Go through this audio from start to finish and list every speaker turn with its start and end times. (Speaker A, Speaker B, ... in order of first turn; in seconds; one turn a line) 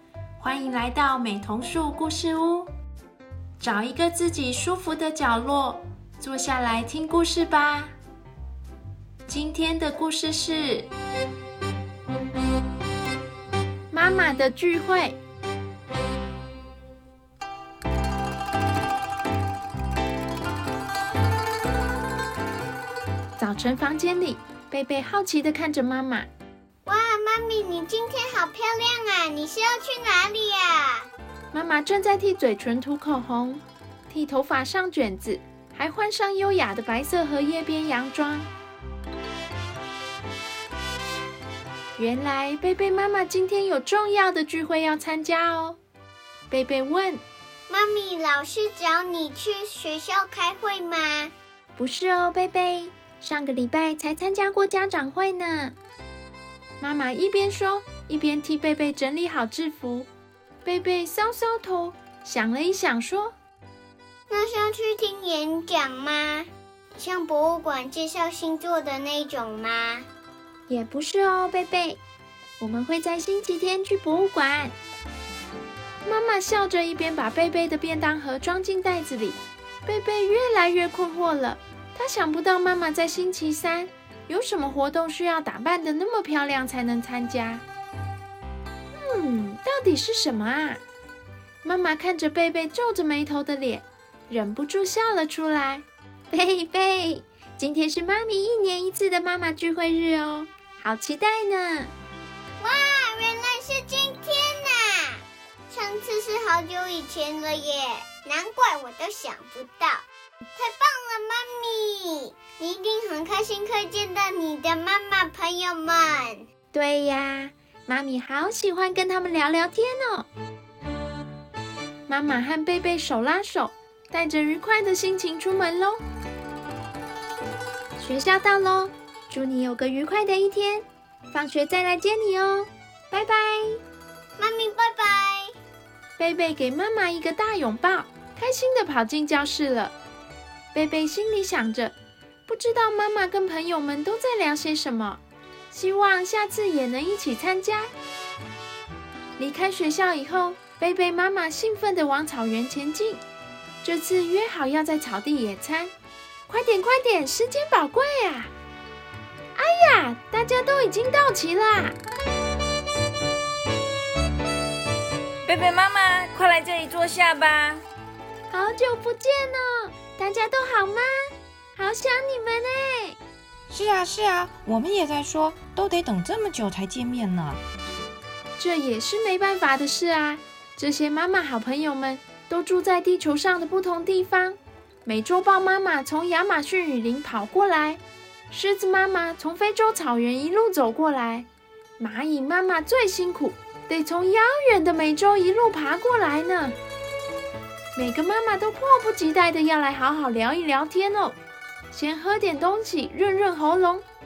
Speaker A: 0.4-2.7
Speaker A: 3.6-7.9
Speaker A: 9.3-10.9
Speaker A: 13.9-15.2
Speaker A: 23.4-26.3
Speaker B: 26.9-31.1
Speaker A: 31.5-38.5
Speaker A: 42.0-45.8
Speaker A: 46.5-47.2
Speaker B: 47.7-51.3
Speaker A: 51.8-55.7
Speaker A: 56.8-60.1
Speaker A: 60.6-63.3
Speaker B: 64.3-70.1
Speaker A: 70.7-72.0
Speaker A: 72.6-74.7
Speaker A: 76.0-87.6
Speaker A: 88.9-90.8
Speaker A: 91.6-101.9
Speaker B: 102.6-110.0
Speaker B: 110.6-116.4
Speaker A: 116.7-120.3
Speaker A: 122.1-126.0
Speaker A: 128.0-133.8
Speaker B: 134.4-135.5
Speaker A: 136.2-139.9
Speaker A: 140.7-141.9
Speaker A: 142.5-147.9
Speaker A: 149.4-153.2
Speaker A: 153.8-155.9
Speaker A: 156.5-158.5
Speaker A: 159.6-161.9
Speaker C: 165.4-167.8
Speaker A: 168.5-173.2
Speaker D: 173.7-177.6
Speaker A: 178.6-196.8
Speaker A: 197.9-201.4
Speaker A: 201.9-204.0